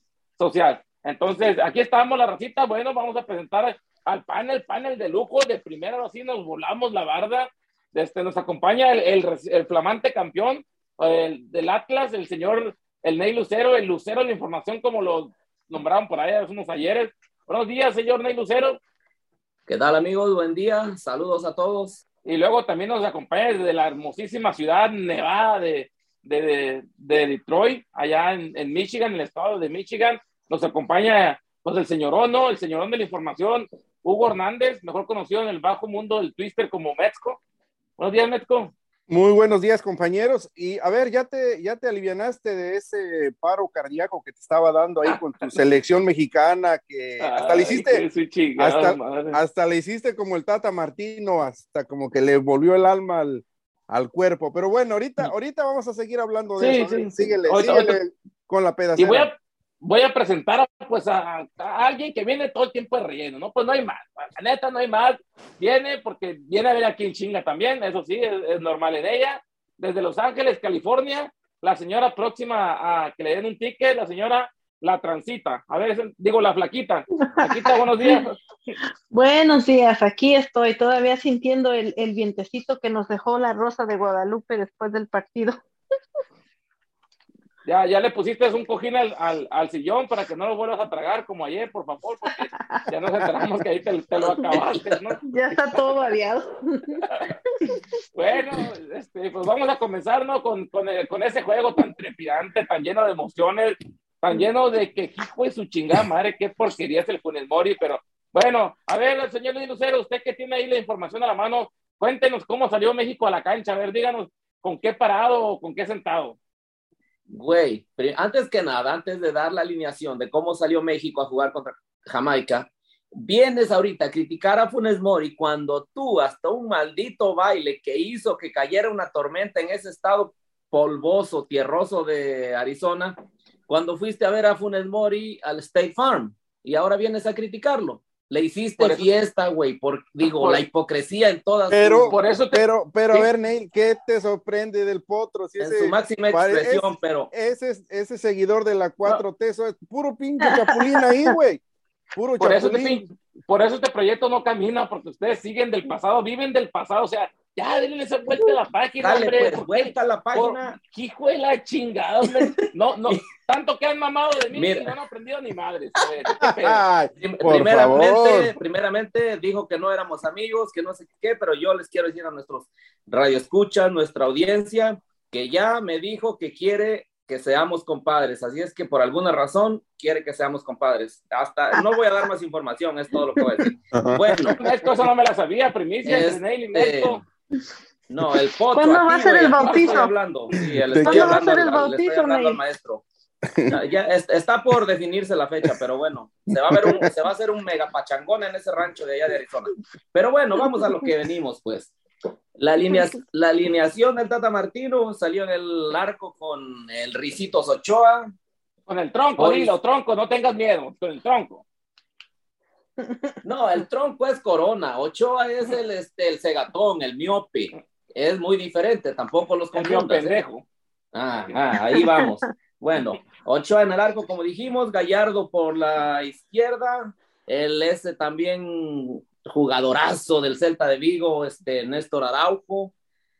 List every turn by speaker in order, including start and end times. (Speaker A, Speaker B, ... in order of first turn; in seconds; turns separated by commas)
Speaker A: 0.4-18.8, Speaker B: 19.7-22.0, Speaker A: 22.2-37.4, Speaker A: 38.0-38.7, Speaker C: 39.1-48.0, Speaker A: 47.2-49.4, Speaker C: 48.6-59.3, Speaker A: 56.6-58.0, Speaker A: 59.0-78.4, Speaker D: 77.3-78.2, Speaker D: 79.1-85.6, Speaker A: 87.6-95.2, Speaker D: 95.3-97.1, Speaker A: 98.1-116.4, Speaker B: 117.3-142.2, Speaker A: 138.8-139.1, Speaker A: 140.2-140.6, Speaker C: 141.7-151.6, Speaker A: 142.1-143.3, Speaker B: 145.6-147.3, Speaker D: 150.5-151.3, Speaker C: 152.1-153.0, Speaker A: 152.4-166.8, Speaker B: 159.0-160.8, Speaker B: 164.5-164.9, Speaker C: 166.4-168.6, Speaker B: 167.2-184.6, Speaker C: 183.9-184.6, Speaker A: 184.6-187.2, Speaker B: 186.0-187.2, Speaker B: 188.1-193.0, Speaker D: 188.7-190.1, Speaker A: 189.6-190.0, Speaker C: 190.8-191.4, Speaker D: 191.0-192.6, Speaker C: 193.5-193.8, Speaker B: 193.7-201.9, Speaker C: 196.7-197.1, Speaker B: 202.6-208.3, Speaker A: 208.9-211.6, Speaker B: 209.4-209.8, Speaker D: 213.0-213.3, Speaker B: 213.4-220.4, Speaker A: 219.7-220.6, Speaker B: 221.1-232.9, Speaker D: 222.0-222.2